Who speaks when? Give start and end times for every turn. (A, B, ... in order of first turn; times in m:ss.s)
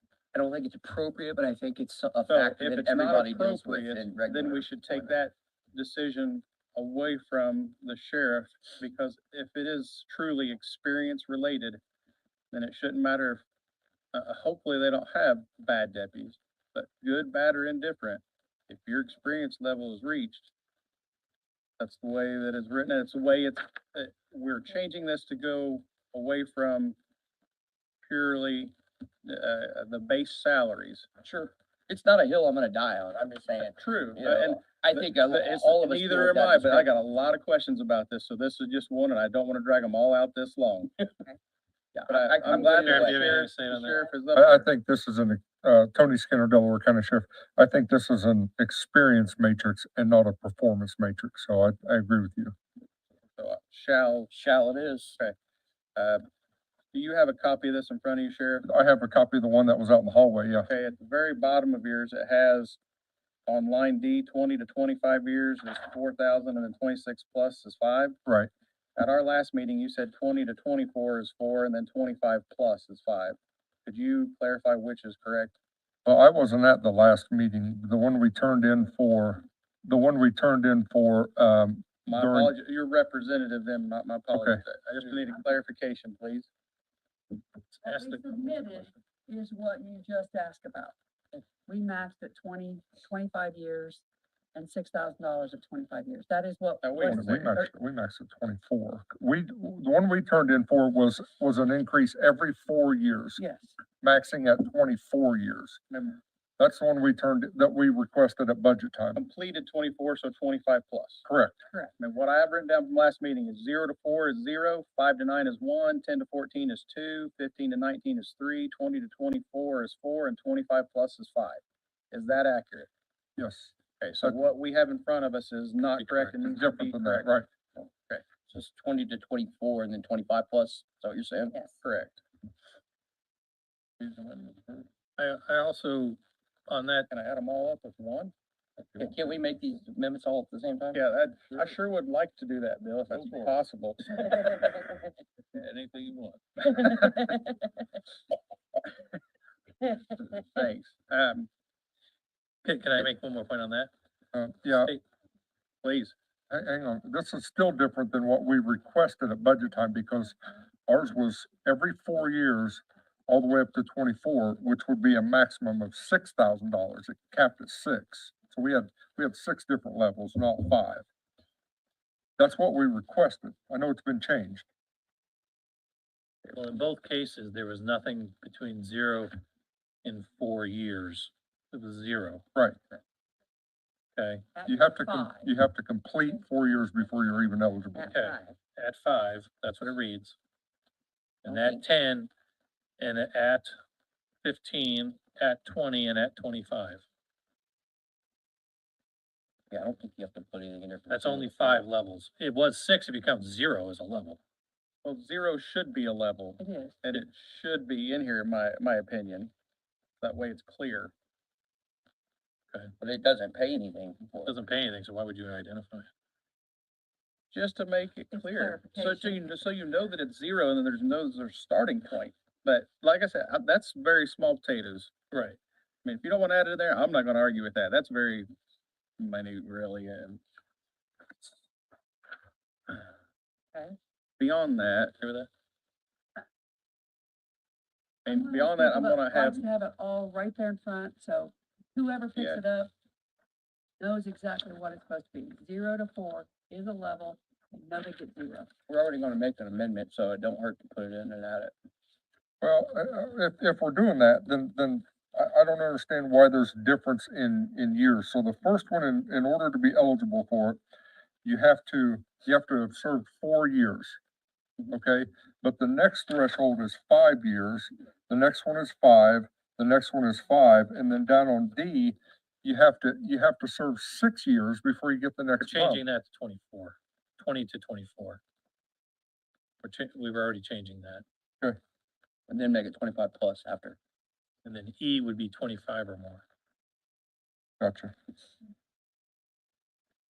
0:00.3-0:05.1 A
0:02.3-0:11.8 B
0:12.5-0:13.4 B
0:14.1-0:20.5 B
0:21.8-0:27.0 B
0:28.0-0:31.1 B
0:31.2-0:36.9 A
0:33.8-0:41.1 B
0:41.9-0:43.4 A
0:42.1-0:44.7 B
0:42.5-0:44.0 C
0:44.3-0:52.5 D
0:53.4-0:54.3 B
0:54.3-0:55.2 A
0:55.9-0:56.2 B
0:56.9-0:58.6 B
0:58.6-1:00.7 D
1:00.7-1:02.8 B
1:03.4-1:08.2 B
1:09.0-1:15.6 B
1:16.0-1:22.5 D
1:22.1-1:26.5 B
1:24.3-1:24.6 D
1:27.7-1:28.9 C
1:27.8-1:34.0 E
1:34.5-1:37.7 E
1:36.8-1:37.4 B
1:37.0-1:43.4 D
1:43.4-1:43.7 E
1:44.0-1:45.8 D
1:45.9-1:46.2 B
1:46.6-1:49.2 D
1:49.2-1:51.2 B
1:51.2-1:51.6 D
1:52.0-2:02.9 B
2:03.4-2:04.4 D
2:04.0-2:08.2 B
2:06.0-2:06.3 C
2:06.4-2:07.4 D
2:08.5-2:11.6 A
2:11.8-2:12.2 B
2:14.0-2:14.8 B
2:15.2-2:17.1 C
2:17.1-2:18.3 B
2:19.0-2:21.0 A
2:20.9-2:24.6 B
2:25.5-2:26.4 C
2:30.3-2:31.5 B
2:32.6-2:33.9 C
2:34.3-2:34.9 D
2:34.7-2:35.0 C
2:35.8-2:36.1 B
2:36.5-2:51.0 D
2:52.4-2:54.6 D
2:56.5-2:59.4 C
3:00.0-3:02.4 C
3:04.2-3:04.4 C
3:04.6-3:05.4 E
3:04.6-3:08.1 D
3:08.0-3:08.4 E
3:08.1-3:10.4 C
3:11.4-3:12.3 C
3:11.4-3:11.8 A
3:13.0-3:13.7 C
3:14.4-3:17.0 C
3:19.7-3:21.9 A
3:21.1-3:24.4 C
3:25.0-3:29.5 B
3:26.6-3:27.0 E
3:30.2-3:31.1 B
3:33.0-3:34.6 A
3:34.4-3:36.1 C
3:37.5-3:45.1 B
3:38.3-3:39.4 E
3:45.3-3:45.6 C
3:46.0-3:48.5 B
3:49.2-3:50.4 B
3:54.4-3:55.1 B
3:55.2-3:55.5 C
3:58.2-3:59.6 B
3:58.2-4:02.9 E
4:02.4-4:02.6 B
4:04.0-4:08.7 E
4:08.9-4:11.7 A
4:12.6-4:20.8 D
4:21.4-4:24.2 D
4:24.9-4:36.0 D
4:35.6-4:38.4 C
4:39.8-4:41.2 C
4:42.5-4:44.0 A
4:44.6-4:46.4 C
4:47.8-4:48.1 D